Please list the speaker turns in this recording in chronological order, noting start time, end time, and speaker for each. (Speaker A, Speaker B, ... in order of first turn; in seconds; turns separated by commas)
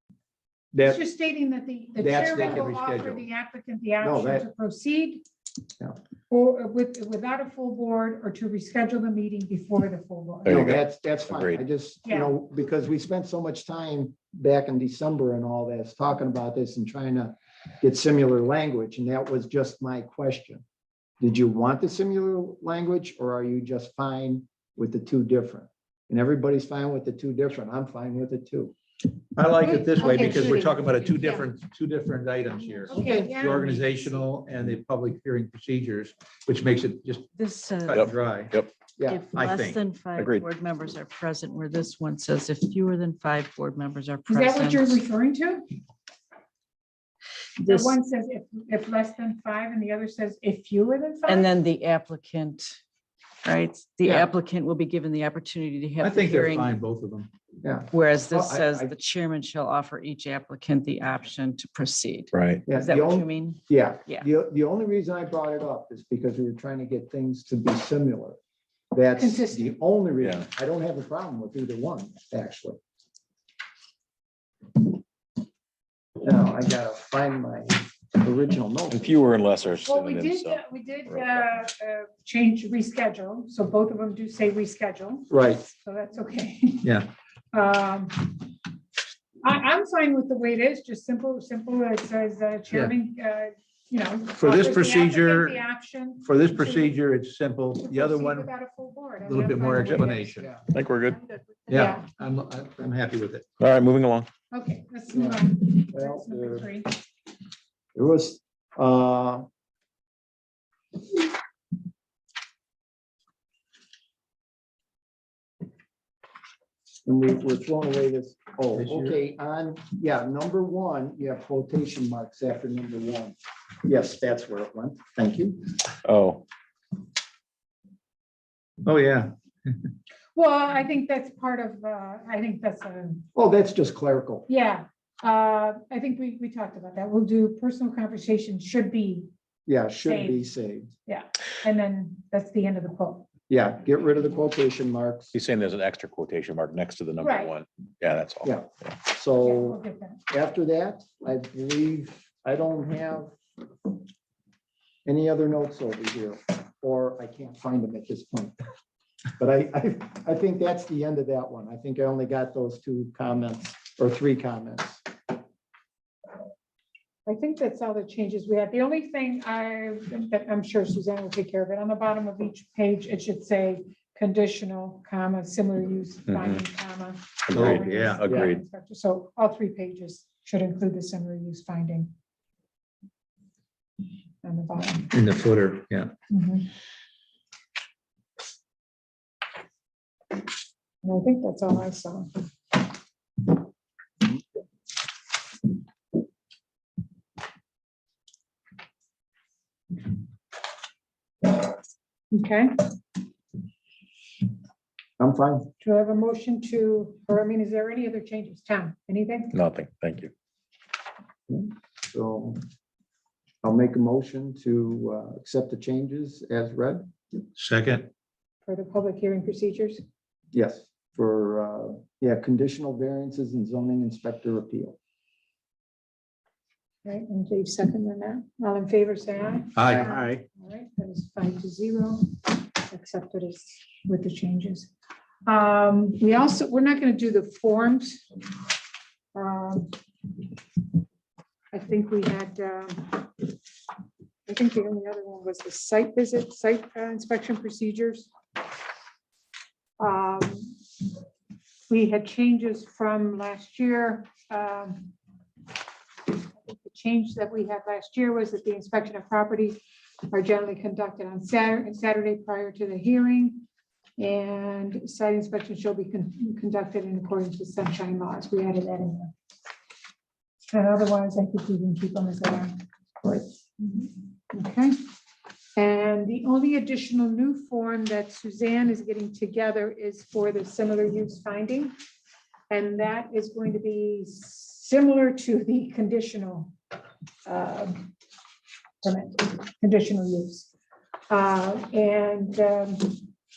Speaker A: 0.7-1.0, Speaker B: 0.8-5.2, Speaker A: 2.0-3.2, Speaker C: 2.1-2.7, Speaker C: 4.0-4.5, Speaker B: 6.3-10.7, Speaker D: 10.4-11.6, Speaker C: 10.5-20.6, Speaker B: 12.1-12.3, Speaker C: 21.2-28.7, Speaker A: 29.4-37.3, Speaker B: 29.6-31.5, Speaker B: 32.9-33.9, Speaker C: 32.9-33.4, Speaker E: 37.4-38.1, Speaker A: 37.8-38.6, Speaker D: 37.9-38.7, Speaker C: 39.0-39.2, Speaker E: 39.1-45.0, Speaker A: 39.4-39.8, Speaker D: 40.1-40.5, Speaker B: 44.3-45.7, Speaker E: 47.6-48.0, Speaker B: 47.6-51.5, Speaker E: 51.3-52.8, Speaker E: 53.4-56.8, Speaker A: 56.0-57.3, Speaker C: 57.6-58.9, Speaker E: 57.9-64.3, Speaker D: 62.3-62.6, Speaker C: 62.7-68.4, Speaker C: 68.9-72.8, Speaker B: 69.2-69.8, Speaker D: 70.2-70.5, Speaker C: 76.2-79.2, Speaker D: 78.9-81.3, Speaker B: 79.7-87.0, Speaker C: 85.3-85.7, Speaker A: 86.8-87.1, Speaker B: 87.5-88.5, Speaker B: 89.4-97.0, Speaker A: 94.3-95.6, Speaker A: 96.2-98.5, Speaker B: 97.8-100.5, Speaker A: 99.3-100.5, Speaker D: 100.7-101.2, Speaker A: 101.7-103.5, Speaker B: 101.7-102.1, Speaker D: 103.6-104.3, Speaker B: 104.5-107.0, Speaker C: 105.1-106.7, Speaker C: 108.0-109.5, Speaker C: 117.1-125.8, Speaker A: 118.8-119.2, Speaker D: 126.0-126.4, Speaker A: 128.8-129.9, Speaker B: 130.4-133.2, Speaker C: 133.3-134.5, Speaker B: 134.5-139.3, Speaker C: 139.7-140.9, Speaker B: 140.0-140.5, Speaker B: 141.1-143.3, Speaker C: 143.5-145.3, Speaker D: 145.3-148.6, Speaker B: 147.2-147.5, Speaker C: 148.4-153.3, Speaker B: 149.4-150.2, Speaker C: 155.1-158.6, Speaker C: 159.4-165.1, Speaker B: 167.3-182.1, Speaker D: 176.3-176.6, Speaker D: 177.5-178.6, Speaker A: 177.5-178.3, Speaker C: 178.3-178.6, Speaker B: 184.4-185.1, Speaker A: 185.1-186.1, Speaker B: 186.3-186.7, Speaker B: 191.0-192.3, Speaker B: 202.3-202.9, Speaker C: 205.2-205.7, Speaker B: 205.8-209.5, Speaker D: 209.5-210.3, Speaker C: 211.5-212.6, Speaker C: 213.6-217.1, Speaker A: 217.6-218.1, Speaker B: 218.7-220.0, Speaker C: 220.5-225.0, Speaker B: 227.1-234.9, Speaker A: 229.8-230.4, Speaker B: 235.5-238.2, Speaker B: 239.3-239.9, Speaker B: 241.7-243.5, Speaker B: 244.5-248.3, Speaker B: 250.0-250.8, Speaker B: 251.9-255.1, Speaker B: 256.5-263.6, Speaker B: 264.2-269.3, Speaker B: 270.7-272.7, Speaker B: 273.8-275.0, Speaker B: 275.8-281.9, Speaker B: 282.7-286.7, Speaker B: 287.5-288.1, Speaker B: 289.0-290.7, Speaker B: 291.3-293.3